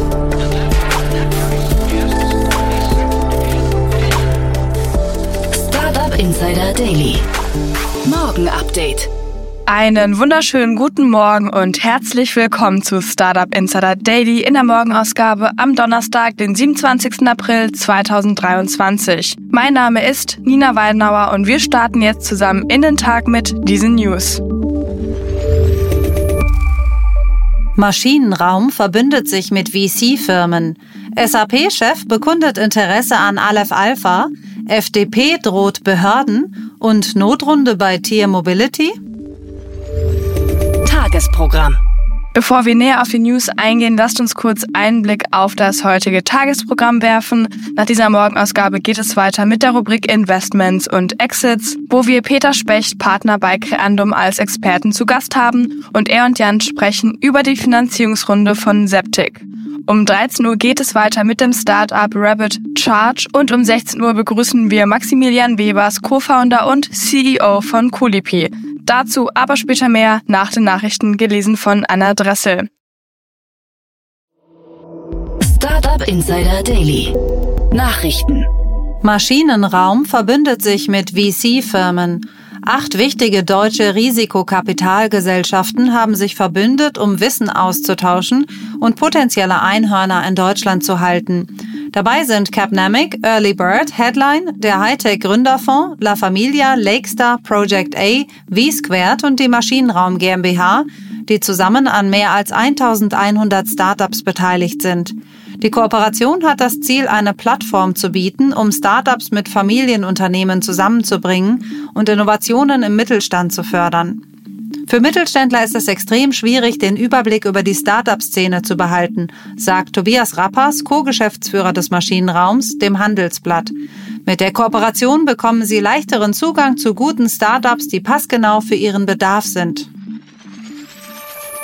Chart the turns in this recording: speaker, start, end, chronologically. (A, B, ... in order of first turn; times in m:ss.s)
0:05.5-0:07.2 A
0:08.0-0:09.1 A
0:09.7-0:24.4 B
0:27.8-0:39.0 C
0:40.8-0:41.8 A
0:42.3-1:12.7 B
1:15.4-1:17.1 A
1:17.7-1:18.5 A
1:19.0-1:54.2 C
1:54.9-2:03.7 C
2:04.2-2:09.9 C